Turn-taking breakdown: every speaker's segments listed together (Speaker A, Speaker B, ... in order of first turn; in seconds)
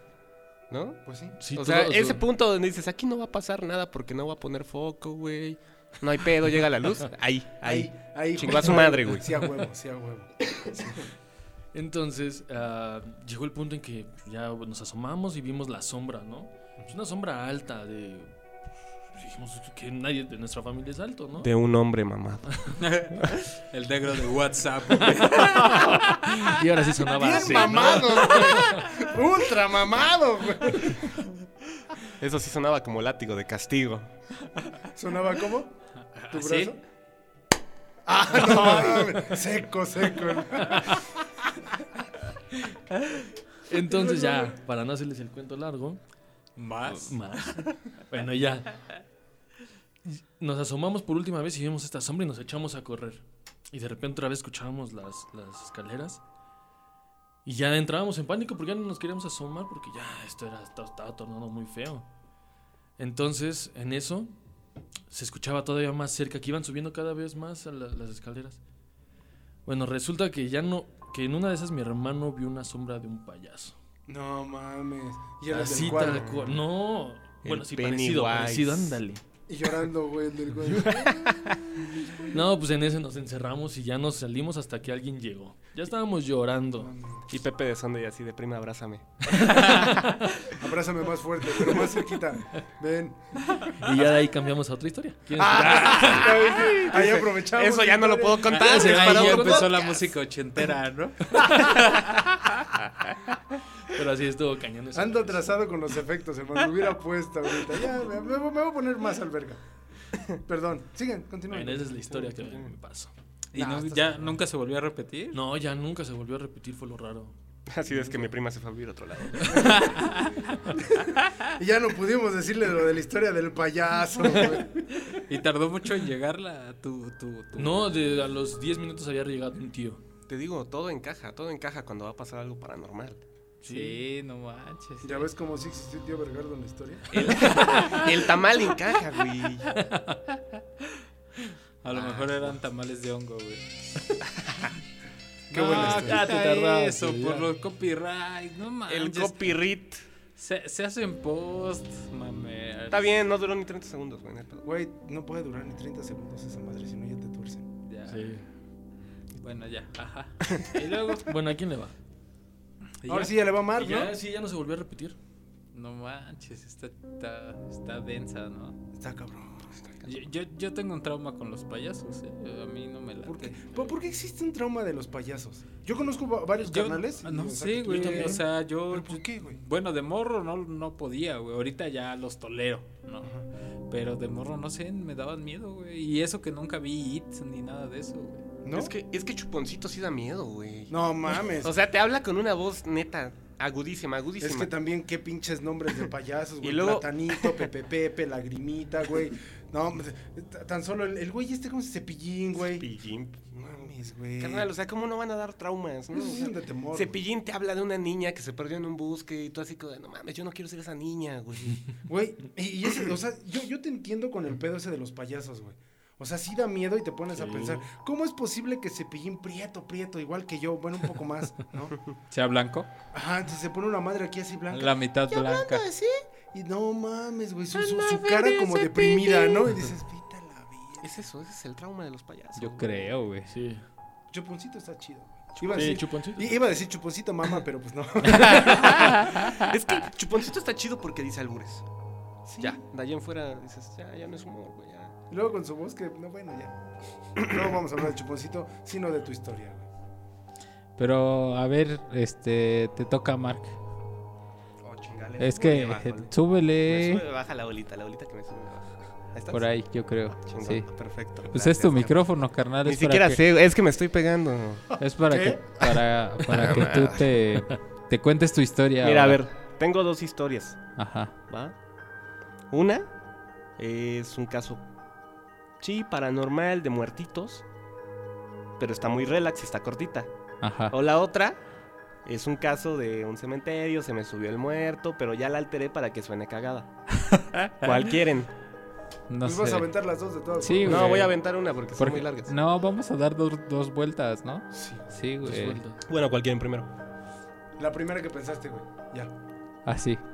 Speaker A: 0.7-9.3, 21.4-22.5, 27.3-28.4, 32.2-34.1, 76.0-76.6, 77.4-79.0, 80.8-81.7, 87.3-89.8, 95.6-100.1, 117.7-120.0, 130.3-133.2, 137.1-139.7, 141.9-142.6, 148.9-150.0, 152.9-154.7, 188.7-194.7, 196.6-197.7, 202.7-211.9, 227.7-229.8, 231.0-233.1, 238.4-241.8, 242.6-245.2, 254.8-256.3, 256.9-259.7, 260.4-265.0, 266.5-267.3, 269.0-270.8, 271.5-271.8, 272.7-273.1, 273.8-274.8, 275.8-277.6, 278.8-280.3, 280.9-281.6, 282.2-286.9, 287.8-288.5, 290.9-292.5, 296.1-296.9
Speaker B: 1.1-1.4, 7.6-11.1, 27.1-31.3, 35.0-35.8, 36.3-36.8, 38.0-41.2, 43.9-44.6, 74.1-76.5, 79.5-82.5, 86.8-87.2, 90.5-93.6, 95.4-98.9, 104.9-109.6, 110.5-112.6, 113.5-114.4, 120.8-124.8, 135.0-137.1, 145.5-146.2, 154.7-157.7, 163.1-164.2, 169.0-170.0, 173.2-179.6, 183.2-183.5, 188.6-188.9, 190.9-191.7, 194.4-202.9, 203.6-204.7, 206.1-207.2, 212.1-222.0, 223.1-231.1, 234.3-239.3, 242.5-242.8, 245.3-246.8, 247.3-249.9, 265.3-265.6, 289.4-291.3, 294.7-295.1, 297.8-299.3
Speaker C: 1.4-2.2, 11.7-18.3, 19.1-21.5, 25.1-28.8, 38.5-39.2, 40.6-40.9, 43.7-46.0, 46.9-48.8, 50.1-56.2, 57.5-62.1, 63.0-64.3, 65.1-68.6, 69.7-73.8, 75.5-79.2, 82.3-86.9, 89.3-90.5, 93.7-96.8, 98.6-99.8, 103.8-105.5, 111.5-113.1, 115.3-117.3, 117.9-118.2, 127.6-130.0, 133.6-134.0, 137.2-138.2, 139.7-140.2, 145.6-147.5, 158.1-158.4, 161.1-161.9, 163.7-165.2, 217.3-217.8, 233.5-233.8, 235.6-236.5, 295.4-296.0
Speaker D: 22.8-26.6, 36.1-36.7, 46.6-47.8, 98.5-102.3, 113.5-115.4, 119.7-120.5, 125.1-127.8, 133.7-135.3, 137.7-138.0, 141.8-143.7, 145.5-149.6, 150.4-153.1, 157.9-158.3, 159.4-161.3, 163.0-163.3, 165.7-168.8, 170.0-173.9, 176.6-183.3, 183.9-188.4, 222.3-222.9, 224.7-225.9, 232.6-233.5, 238.6-239.6, 251.0-253.8, 255.4-257.2, 259.5-260.9, 261.4-263.4, 265.0-269.4, 271.0-271.3, 280.6-280.9, 287.3-287.7, 289.3-289.9, 290.6-291.4, 292.0-295.8, 299.9-300.2